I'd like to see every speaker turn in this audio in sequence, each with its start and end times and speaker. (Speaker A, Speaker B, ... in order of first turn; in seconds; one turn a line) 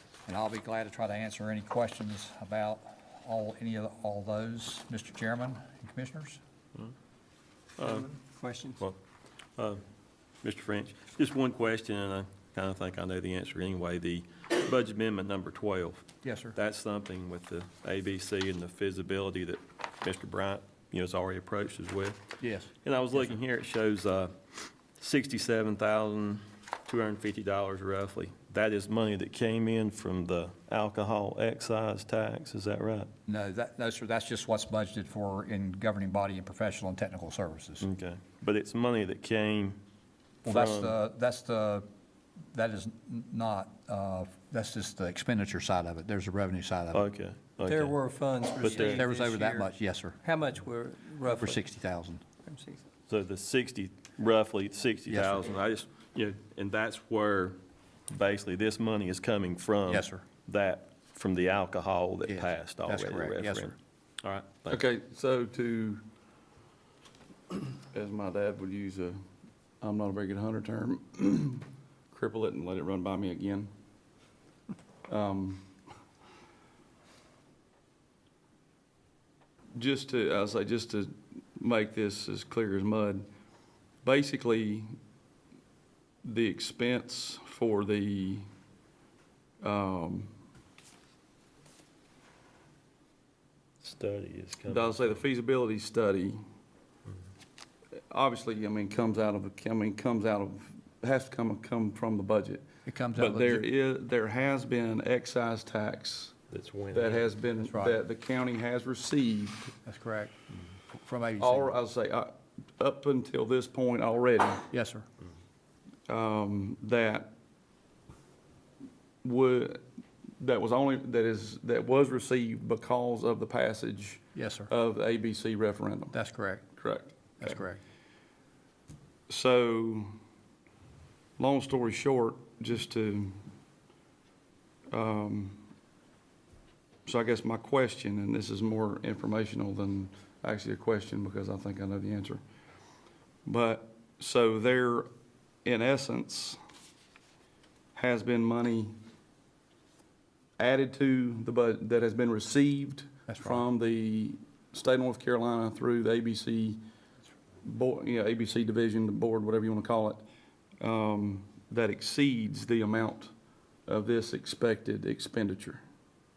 Speaker A: 0.2-6.4
Speaker B: 7.8-8.1
Speaker C: 7.8-8.8
Speaker B: 9.6-9.8
Speaker B: 10.4-22.2
Speaker A: 16.2-16.6
Speaker A: 22.4-22.7
Speaker B: 22.8-33.1
Speaker A: 33.3-37.9
Speaker B: 37.8-39.8
Speaker A: 40.4-41.9
Speaker B: 40.5-40.9
Speaker A: 42.5-47.0
Speaker B: 46.9-48.0
Speaker C: 47.6-51.6
Speaker B: 48.6-49.1
Speaker A: 48.6-50.2
Speaker A: 51.3-52.2
Speaker C: 52.4-52.8
Speaker B: 53.1-57.6
Speaker A: 55.1-55.4
Speaker B: 58.1-64.8
Speaker A: 59.9-60.2
Speaker A: 62.3-63.7
Speaker D: 64.7-66.0
Speaker D: 67.5-69.2
Speaker D: 69.8-73.7
Speaker D: 75.1-75.7
Speaker D: 79.7-83.2
Speaker D: 84.0-84.9
Speaker D: 86.2-88.5
Speaker D: 89.6-90.3
Speaker B: 93.8-95.1
Speaker D: 94.7-96.4
Speaker D: 98.1-106.4
Speaker A: 102.8-103.6
Speaker B: 106.5-107.3
Speaker D: 106.9-109.7
Speaker A: 107.6-108.0
Speaker A: 109.8-110.3
Speaker A: 110.9-111.7
Speaker D: 111.4-114.7
Speaker A: 114.7-115.0
Speaker D: 116.1-117.3
Speaker D: 119.2-119.8
Speaker D: 120.4-126.2
Speaker A: 124.3-124.7
Speaker A: 126.1-126.6
Speaker D: 126.7-127.6
Speaker A: 127.4-127.8
Speaker D: 129.3-130.2
Speaker D: 131.4-133.5
Speaker D: 134.9-135.7
Speaker D: 137.1-142.4
Speaker D: 143.4-145.1
Speaker D: 145.6-146.6
Speaker D: 147.9-148.9
Speaker D: 150.6-156.8
Speaker A: 153.3-153.6
Speaker D: 157.6-160.2
Speaker D: 160.8-163.3
Speaker D: 163.9-165.8